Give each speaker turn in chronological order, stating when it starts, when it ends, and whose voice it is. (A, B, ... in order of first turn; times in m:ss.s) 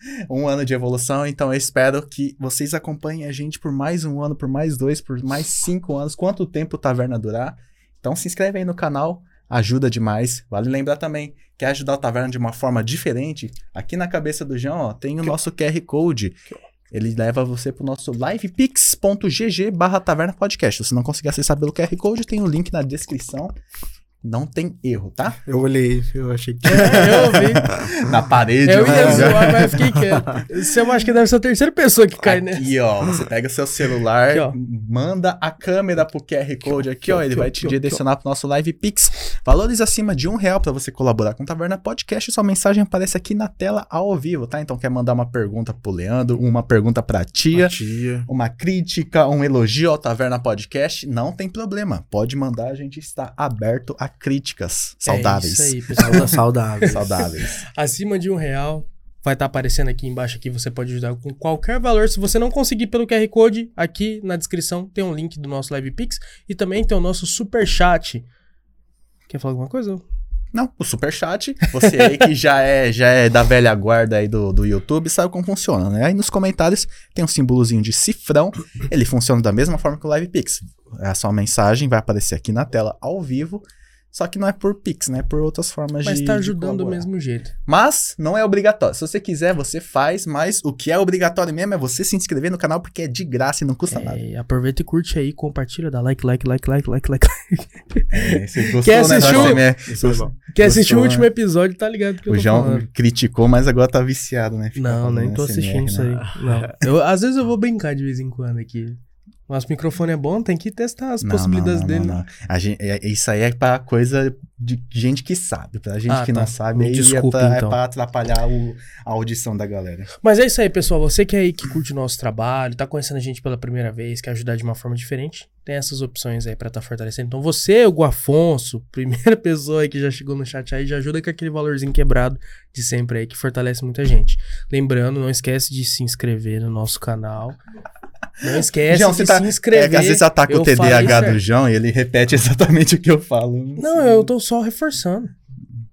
0:00.3-0:23.5 A
0:24.2-0:25.4 A
0:25.4-0:27.9 B
0:26.7-0:27.8 C
0:27.6-0:29.8 A
0:28.6-0:32.7 C
0:28.8-0:30.4 B
0:32.2-0:47.8 A
0:34.3-0:34.6 C
0:37.3-0:38.0 C
0:47.5-0:48.3 B
0:48.3-0:56.1 A
0:55.1-1:08.2 C
0:56.0-0:57.0 B
0:56.9-0:57.6 A
1:09.3-1:10.0 C
1:10.5-1:27.1 A
1:26.0-1:27.5 C
1:27.7-1:34.2 A
1:33.9-1:39.7 C
1:38.1-1:41.3 A
1:39.0-1:40.3 B
1:40.5-1:42.8 C
1:42.3-1:46.3 A
1:44.7-1:52.2 C
1:51.2-2:00.1 A
1:56.1-1:57.8 C
2:00.2-2:17.6 C
2:18.4-2:21.4 C
2:18.8-2:24.3 A
2:23.8-2:25.3 C